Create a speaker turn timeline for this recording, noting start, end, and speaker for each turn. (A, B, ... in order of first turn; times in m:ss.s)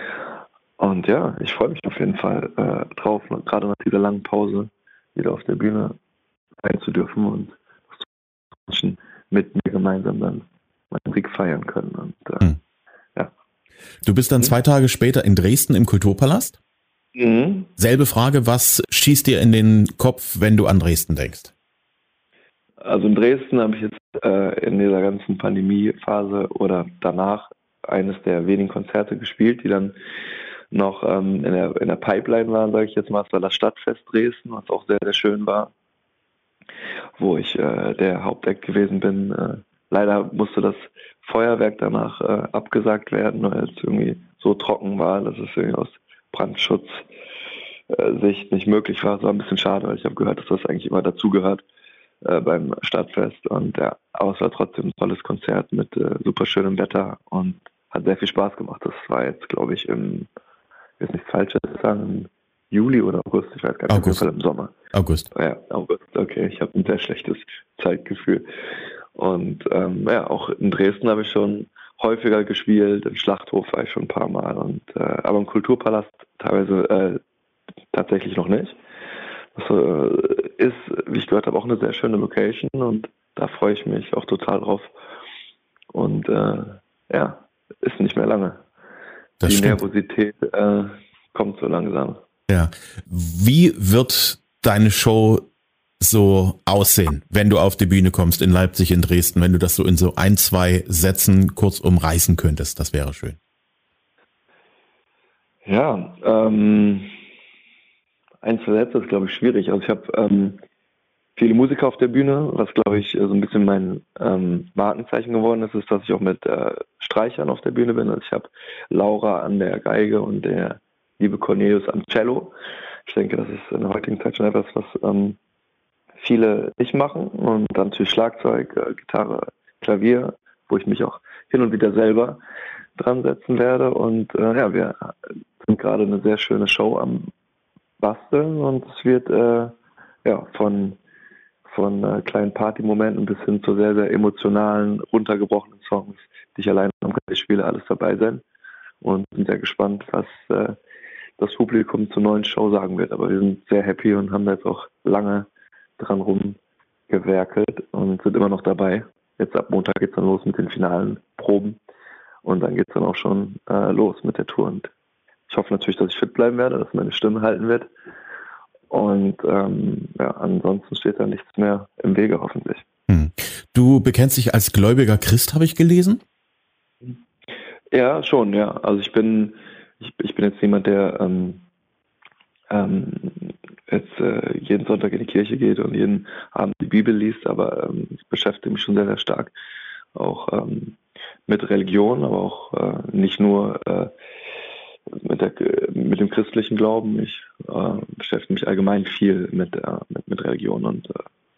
0:00.8-0:06.0 A
0:06.6-0:08.1 A
0:08.6-0:12.5 A
0:14.0-0:16.6 B
0:17.2-0:17.7 A
0:17.8-0:21.5 B
0:22.8-0:30.0 A
0:30.7-0:35.7 A
0:37.2-0:47.1 A
0:47.9-0:51.6 A
0:52.2-1:00.3 A
1:01.0-1:04.8 A
1:03.9-1:04.2 B
1:04.9-1:05.3 B
1:05.3-1:08.5 A
1:09.2-1:17.2 A
1:17.9-1:18.8 A
1:19.6-1:24.9 A
1:25.9-1:28.6 A
1:29.4-1:29.8 B
1:29.4-1:32.2 A
1:32.5-1:35.5 B
1:36.0-1:43.4 B
1:45.6-1:47.1 A
1:48.4-1:50.6 A
1:51.4-2:02.5 A
2:03.1-2:05.4 A
2:06.2-2:12.4 A
2:13.0-2:17.3 A
2:18.0-2:21.0 A
2:21.7-2:28.4 A
2:29.0-2:30.8 A
2:31.4-2:36.6 A
2:37.1-2:41.8 A
2:42.4-2:44.9 A
2:45.5-2:47.9 A
2:48.9-2:52.8 A
2:53.1-2:56.2 B
2:57.9-3:01.6 A
3:02.7-3:09.5 A
3:10.2-3:14.1 A
3:15.1-3:21.2 A